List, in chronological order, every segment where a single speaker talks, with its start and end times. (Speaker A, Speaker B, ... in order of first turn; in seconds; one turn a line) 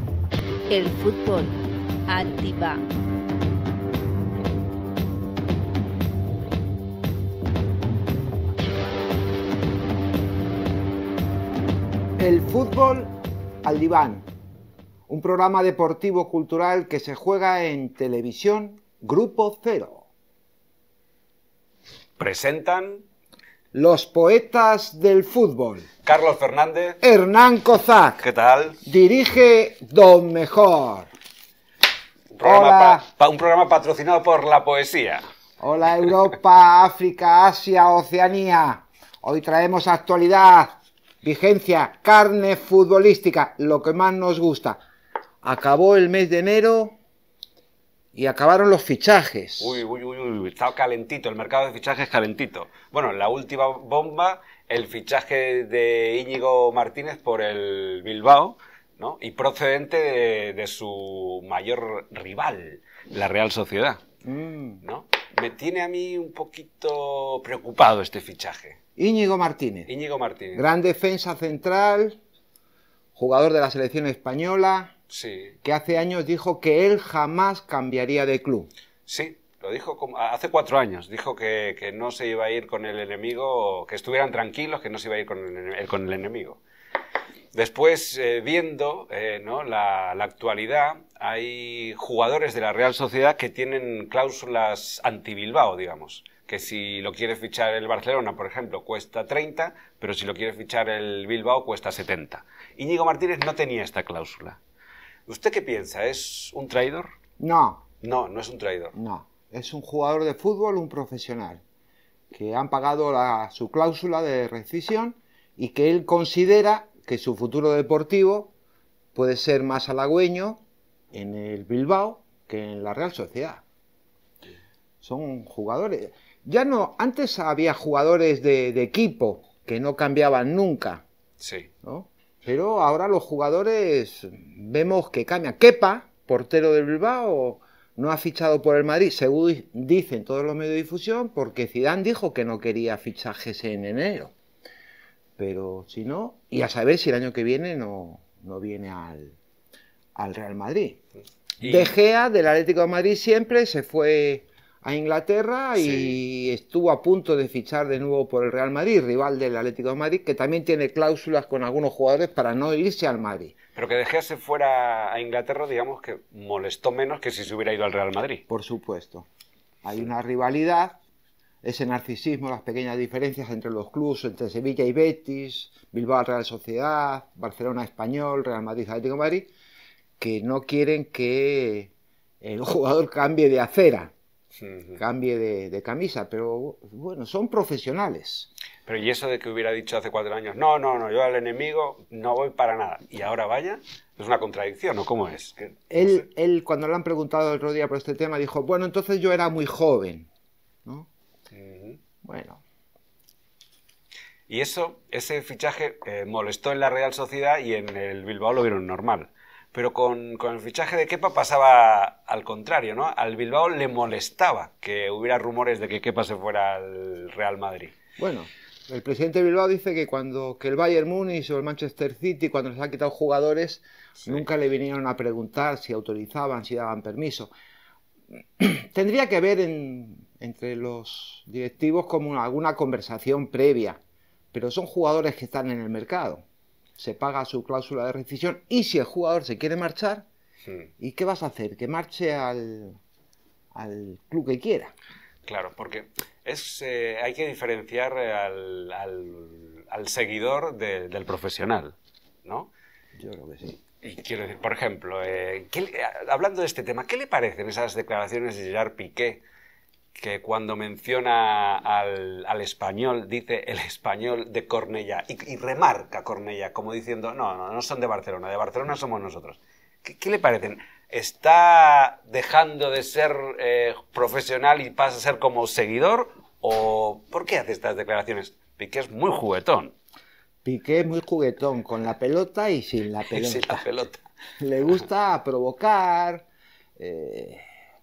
Speaker A: 0.7-2.8
Speaker B: 12.2-14.2
Speaker B: 15.1-20.1
Speaker C: 22.2-23.0
Speaker B: 23.7-25.9
Speaker C: 26.0-27.0
Speaker B: 27.0-28.2
Speaker C: 28.2-28.8
Speaker B: 28.8-31.1
Speaker C: 32.3-35.2
Speaker B: 32.4-33.0
Speaker B: 35.6-44.8
Speaker B: 45.4-47.0
Speaker B: 48.1-49.8
Speaker C: 49.6-64.0
Speaker B: 64.2-64.8
Speaker C: 64.8-68.8
Speaker B: 69.0-69.9
Speaker C: 69.9-70.6
Speaker B: 70.5-72.2
Speaker B: 73.2-75.0
Speaker C: 75.1-75.6
Speaker B: 75.6-78.7
Speaker C: 79.1-86.6
Speaker C: 87.5-104.6
Speaker C: 105.3-107.2
Speaker B: 107.4-107.9
Speaker C: 108.0-108.9
Speaker B: 108.9-111.6
Speaker B: 112.3-118.5
Speaker B: 119.2-120.6
Speaker B: 121.1-123.6
Speaker B: 125.0-131.0
Speaker C: 131.4-131.7
Speaker B: 131.8-144.3
Speaker B: 145.4-149.4
Speaker B: 150.2-151.0
Speaker C: 151.6-151.9
Speaker B: 151.6-163.6
Speaker C: 155.8-156.2
Speaker C: 163.8-168.4
Speaker B: 168.5-169.3
Speaker B: 169.8-171.0
Speaker B: 171.6-179.5
Speaker B: 180.2-184.1
Speaker C: 184.6-185.0
Speaker B: 185.0-188.5
Speaker C: 188.9-196.2
Speaker B: 195.9-200.3
Speaker C: 201.5-202.0
Speaker B: 202.2-202.6
Speaker C: 204.5-218.0
Speaker B: 218.2-227.5
Speaker B: 228.6-234.0
Speaker B: 234.5-236.4
Speaker B: 237.0-240.3
Speaker B: 241.0-243.0
Speaker B: 243.7-244.9
Speaker C: 245.5-252.7
Speaker B: 253.2-253.8
Speaker C: 254.0-259.4
Speaker C: 260.1-279.9
Speaker B: 280.6-283.9
Speaker C: 283.3-284.2
Speaker B: 284.6-286.4
Speaker B: 287.0-287.6